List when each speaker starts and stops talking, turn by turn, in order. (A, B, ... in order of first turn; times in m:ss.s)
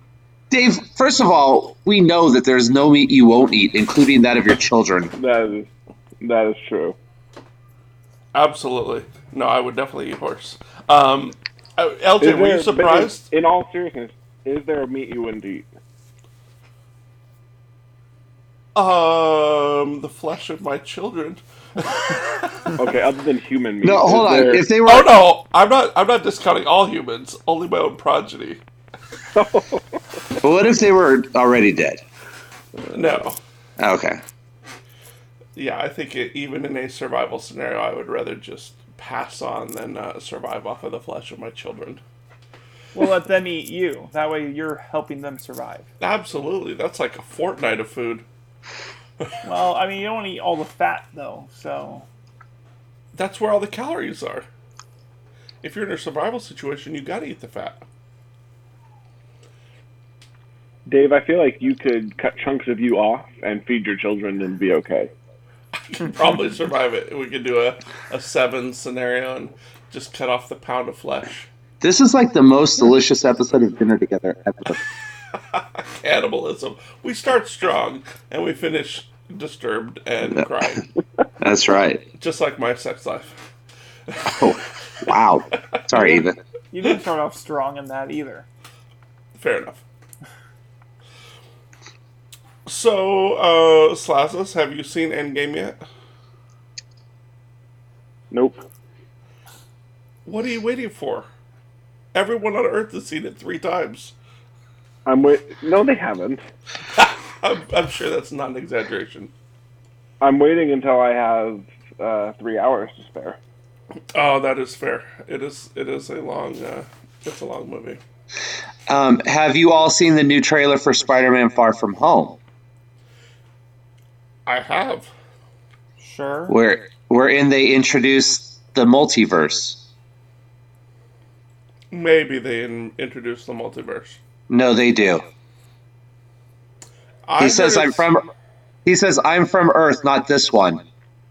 0:00.5-0:05.1 A
0:05.2-0:05.7 B
0:06.2-0:07.0 B
0:08.3-0:13.2 C
0:12.2-0:15.7 B
0:18.8-0:22.8 C
0:22.8-0:24.6 B
0:23.8-0:25.1 A
0:24.9-0:28.6 C
0:29.3-0:29.8 B
0:30.4-0:32.0 A
0:32.8-0:33.2 B
0:32.9-0:33.4 C
0:33.8-0:34.2 A
0:35.6-0:42.0 C
0:42.9-0:45.9 D
0:46.0-0:48.2 C
0:49.4-0:52.1 D
0:53.1-0:54.5 C
0:55.6-0:57.8 C
1:00.9-1:05.1 B
1:05.8-1:11.5 C
1:11.8-1:14.8 A
1:16.0-1:20.8 C
1:21.4-1:22.0 A
1:22.2-1:23.3 C
1:24.1-1:24.5 C
1:24.4-1:26.4 A
1:26.7-1:28.5 D
1:29.4-1:29.8 C
1:32.7-1:35.8 C
1:38.3-1:38.6 B
1:40.2-1:41.3 C
1:42.1-1:44.1 C
1:45.1-1:46.4 B
1:47.0-1:49.3 C
1:50.2-1:53.4 B
1:54.1-1:58.0 C
1:58.9-2:02.4 A
2:04.4-2:05.1 C
2:06.0-2:06.6 D
2:06.5-2:09.8 A
2:11.9-2:14.2 C
2:14.5-2:15.2 A
2:17.2-2:18.1 C
2:17.4-2:18.2 A
2:18.8-2:20.8 A